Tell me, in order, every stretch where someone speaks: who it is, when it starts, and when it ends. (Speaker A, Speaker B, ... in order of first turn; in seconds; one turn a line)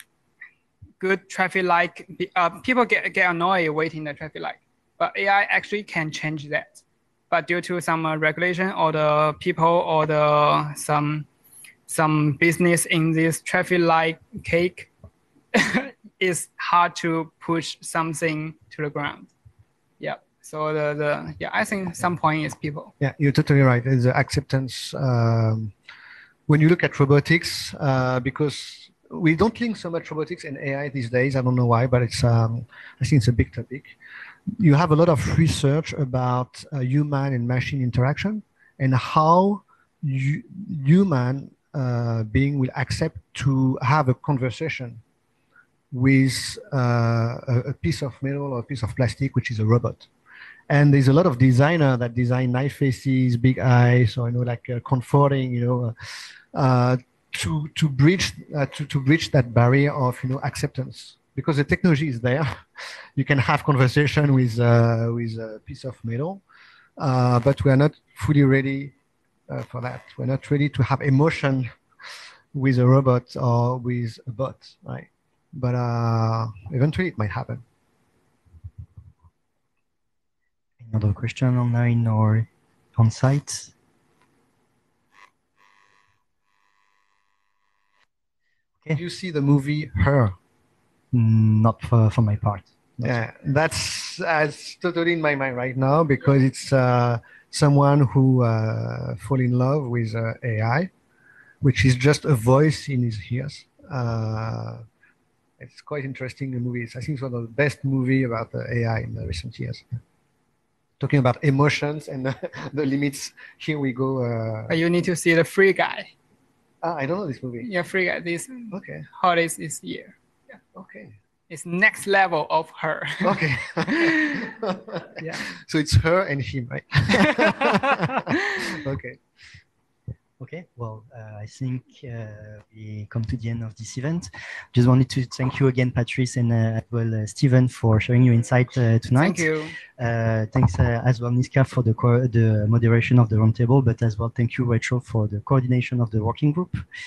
Speaker A: 1.0-11.3
Speaker A: 11.9-14.9
Speaker A: 15.5-19.3
Speaker A: 20.0-22.9
Speaker B: 23.0-25.7
Speaker B: 26.5-34.0
Speaker B: 34.5-45.0
Speaker B: 45.9-50.1
Speaker B: 50.7-55.9
Speaker B: 56.5-62.6
Speaker B: 63.2-66.4
Speaker B: 67.0-68.9
Speaker B: 69.5-71.7
Speaker B: 72.5-77.6
Speaker C: 80.8-83.7
Speaker B: 89.0-90.3
Speaker C: 91.1-93.2
Speaker B: 93.0-100.9
Speaker B: 101.6-104.8
Speaker B: 105.6-110.0
Speaker B: 111.0-114.8
Speaker A: 114.7-116.1
Speaker B: 116.8-117.7
Speaker A: 117.6-120.1
Speaker B: 118.7-119.1
Speaker B: 120.7-121.1
Speaker A: 121.5-123.4
Speaker B: 123.2-129.2
Speaker A: 123.9-124.4
Speaker A: 125.2-125.5
Speaker C: 130.4-146.8
Speaker A: 139.2-139.8